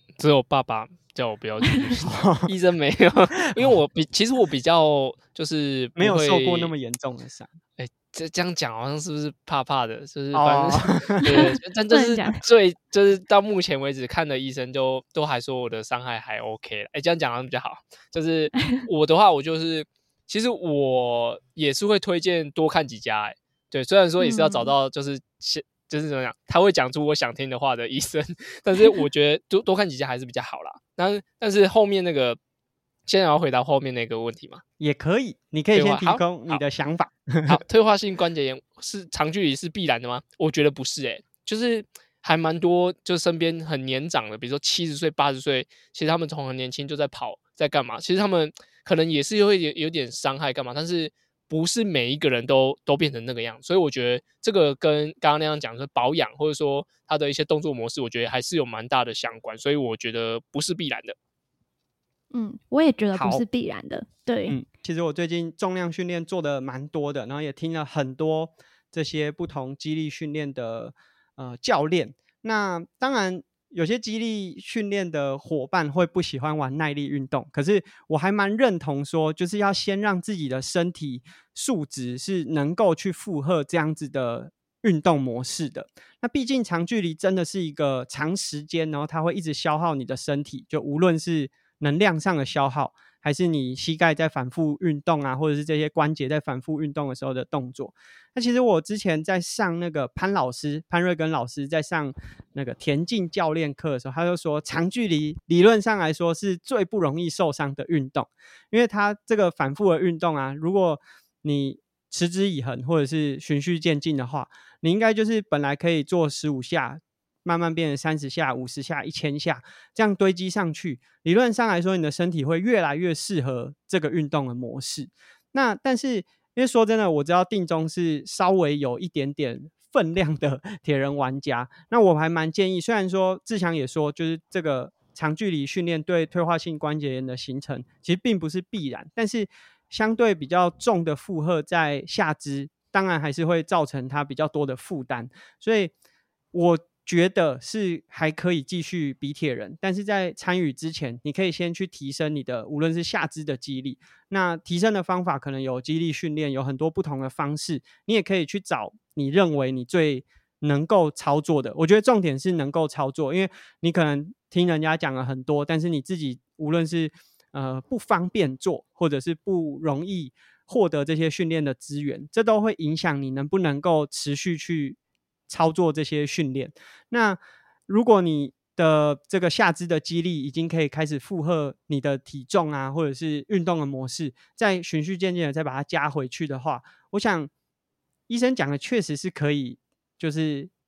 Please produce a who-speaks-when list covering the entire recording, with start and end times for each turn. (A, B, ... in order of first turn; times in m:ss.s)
0:00.2-0:06.8 A
0:02.0-0:02.5 B
0:06.0-0:07.5 B
0:07.8-0:32.4 A
0:10.3-0:11.5 B
0:11.2-0:12.4 C
0:24.2-0:24.7 C
0:33.1-0:34.6 A
0:34.8-0:37.6 B
0:35.7-0:36.6 A
0:37.5-1:01.2 A
1:02.3-1:04.6 C
1:03.1-1:03.4 B
1:04.5-2:25.9 B
2:26.5-3:07.5 B
3:08.3-3:10.7 B